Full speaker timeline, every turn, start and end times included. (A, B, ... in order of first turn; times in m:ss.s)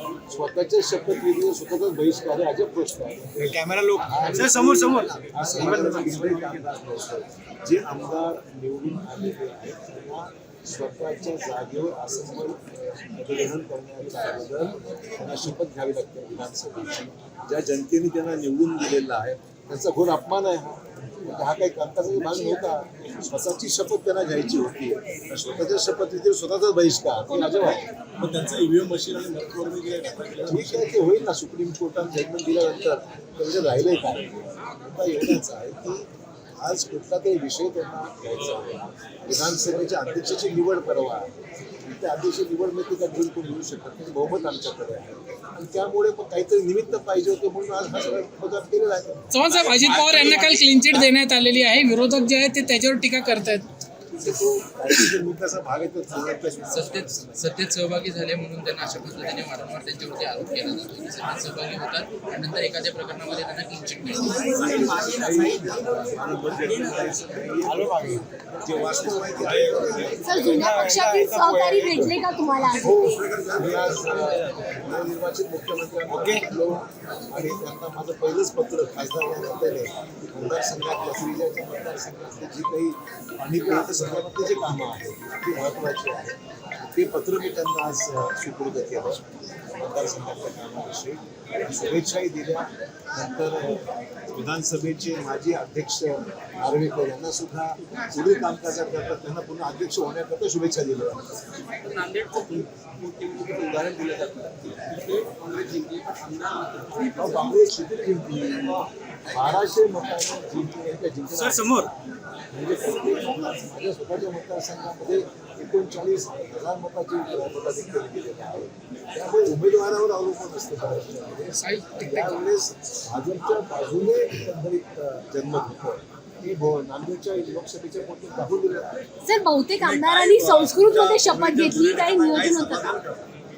0:00.3-0:27.9 A
0:03.6-0:06.4 B
0:04.3-0:06.3 C
0:27.3-0:27.9 D
0:28.3-0:28.9 C
0:29.4-0:30.5 C
0:30.5-0:49.3 A
0:49.3-0:53.7 E
0:49.7-0:50.6 B
0:54.1-0:57.5 A
0:56.7-1:05.2 B
1:04.5-1:10.8 A
1:10.2-1:13.3 D
1:10.8-1:11.7 B
1:11.0-1:12.1 C
1:12.8-1:41.3 A
1:41.7-1:47.1 B
1:43.6-1:44.4 A
1:47.1-1:51.9 A
1:51.3-1:51.9 B
1:52.5-2:09.0 A
2:01.6-2:02.3 E
2:09.2-2:12.9 D
2:09.8-2:13.2 C